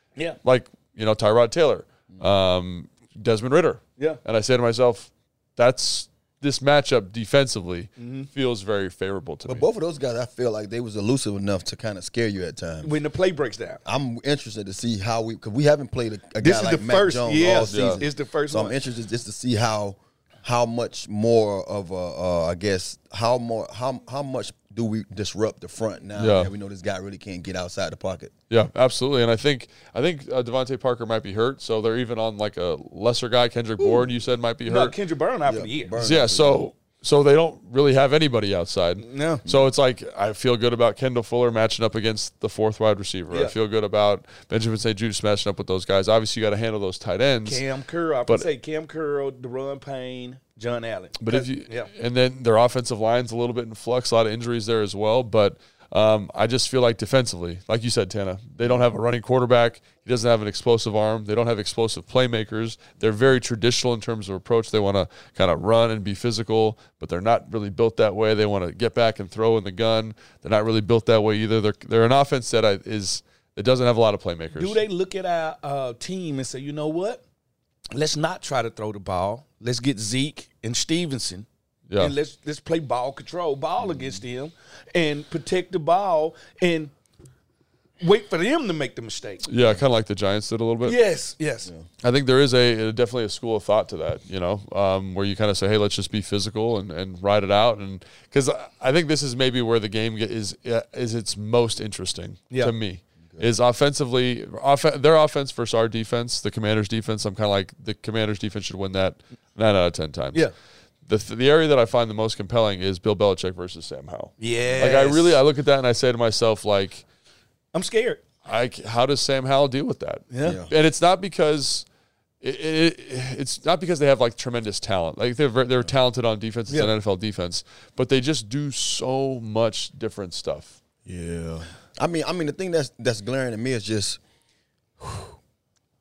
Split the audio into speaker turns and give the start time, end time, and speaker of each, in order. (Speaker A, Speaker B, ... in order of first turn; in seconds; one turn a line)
Speaker A: 0.4-9.6
Speaker B: 8.0-8.3
Speaker C: 9.5-12.9
Speaker B: 12.8-13.8
Speaker C: 13.8-28.3
Speaker B: 16.4-18.8
Speaker A: 17.7-18.0
Speaker A: 26.2-26.5
Speaker A: 28.5-35.0
Speaker B: 34.7-36.0
Speaker C: 35.5-36.7
Speaker A: 36.0-47.6
Speaker B: 39.0-39.4
Speaker B: 47.5-51.9
Speaker A: 51.2-74.8
Speaker B: 74.5-77.2
Speaker B: 77.9-81.5
Speaker A: 81.9-82.1
Speaker B: 82.0-86.9
Speaker B: 88.0-89.5
Speaker A: 89.5-91.0
Speaker B: 90.9-91.7
Speaker A: 92.0-110.5
Speaker A: 111.1-117.0
Speaker B: 114.4-115.4
Speaker B: 117.7-118.2
Speaker A: 118.4-121.9
Speaker B: 120.3-120.6
Speaker C: 120.4-120.7
Speaker A: 122.4-130.8
Speaker C: 131.1-134.2
Speaker C: 135.0-135.4